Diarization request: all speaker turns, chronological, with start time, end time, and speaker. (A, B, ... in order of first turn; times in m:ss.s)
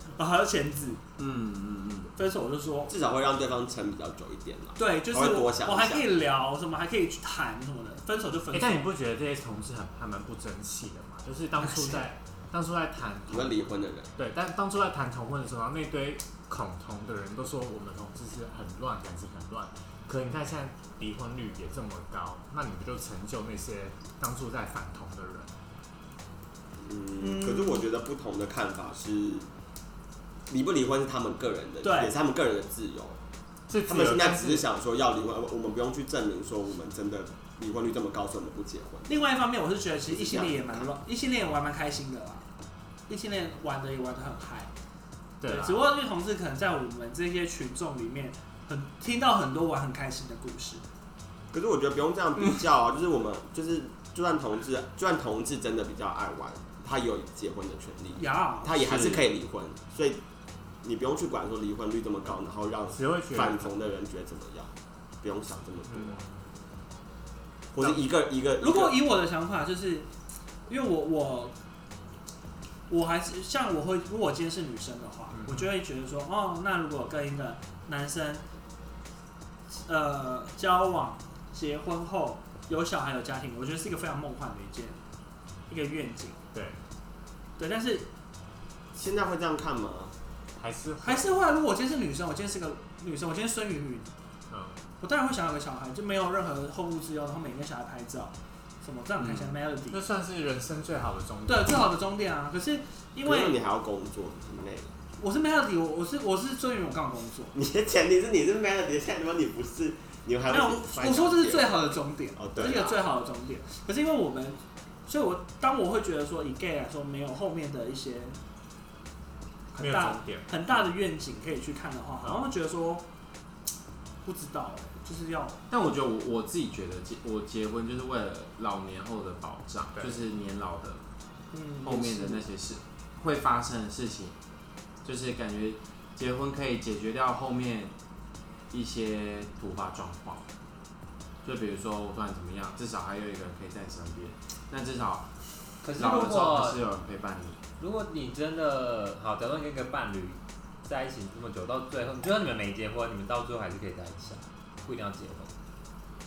0:00.1-0:01.0 A
0:01.2-0:02.1 B
0:02.1-0:02.9 A
0:02.9-0:06.0 C
0:04.8-0:08.9 A
0:08.5-0:25.5 D
0:11.6-0:12.0 A
0:13.3-0:14.1 C
0:26.8-0:29.5 C
0:27.2-0:27.8 A
0:30.5-0:33.2 C
0:31.8-0:32.1 A
0:33.7-0:34.7 D
0:33.8-0:39.1 C
0:39.1-0:42.5 A
0:40.1-0:40.9 C
0:43.1-0:44.7 A
0:45.4-0:45.9 D
0:45.4-0:50.8 A
0:51.5-1:00.2 C
0:58.2-0:59.1 A
0:58.8-0:59.3 B
1:00.8-1:06.2 C
1:02.9-1:03.7 D
1:05.9-1:06.4 D
1:07.7-1:09.0 C
1:08.6-1:10.1 A
1:10.7-1:11.5 A
1:12.9-1:18.4 A
1:15.3-1:15.8 D
1:19.8-1:25.0 A
1:25.7-1:26.4 A
1:26.5-1:26.8 D
1:27.6-1:28.1 A
1:28.9-1:30.1 C
1:30.6-1:31.3 D
1:31.0-1:34.1 A
1:34.5-1:34.9 D
1:35.0-1:40.0 A
1:39.2-1:39.5 B
1:39.9-1:41.9 D
1:41.5-1:43.6 A
1:43.2-1:44.9 C
1:45.2-1:47.5 A
1:47.5-1:51.8 C
1:50.5-1:58.4 A
1:52.4-1:53.0 C
1:59.7-2:03.0 A
1:59.8-2:00.9 D
2:04.2-2:05.6 A
2:05.7-2:11.0 B
2:11.5-2:12.5 A
2:11.8-2:14.4 B
2:15.0-2:17.9 B
2:18.7-2:20.5 B
2:21.4-2:25.3 B
2:25.8-2:26.8 E
2:26.0-2:27.6 B
2:27.8-2:35.5 E